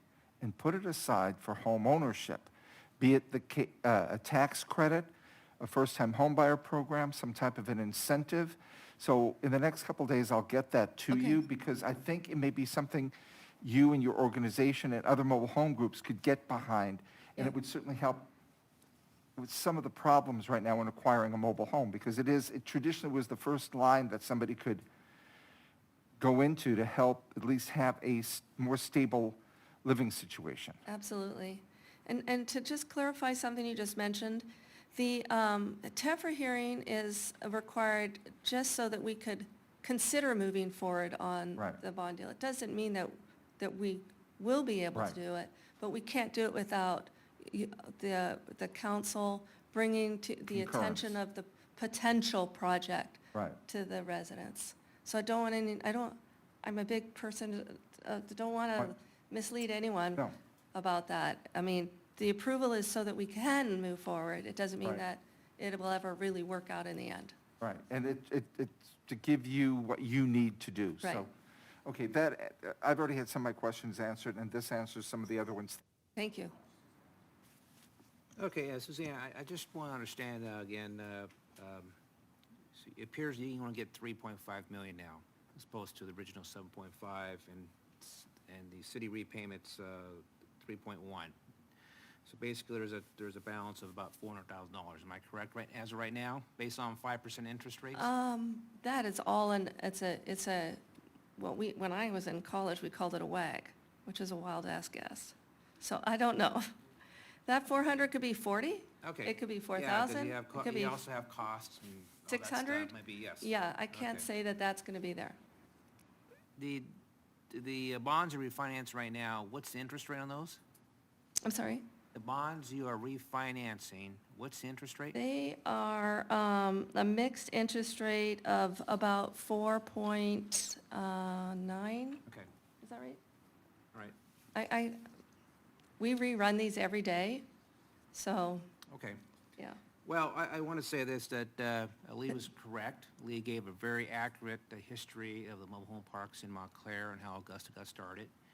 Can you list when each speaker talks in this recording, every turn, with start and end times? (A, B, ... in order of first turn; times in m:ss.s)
0:00.4-0:18.3 A
0:11.1-0:11.4 B
0:19.4-0:24.8 A
0:26.2-0:30.8 A
0:30.9-1:07.4 B
0:50.5-0:51.1 A
0:53.3-0:53.6 A
1:07.6-1:11.3 A
1:11.8-1:15.8 A
1:16.2-1:16.6 B
1:18.4-1:22.0 C
1:22.8-1:31.4 C
1:32.3-1:38.1 C
1:37.9-1:40.8 B
1:41.4-1:46.7 B
1:47.5-1:51.0 B
1:49.0-1:54.3 C
1:52.3-1:55.4 B
1:56.6-1:56.9 C
1:57.5-2:00.6 C
2:01.4-2:01.9 B
2:02.2-2:05.2 C
2:05.1-2:12.2 B
2:12.8-2:13.2 B
2:14.6-2:15.0 B
2:16.0-2:17.5 B
2:18.1-2:18.7 B
2:18.9-2:19.2 C
2:20.0-2:28.3 C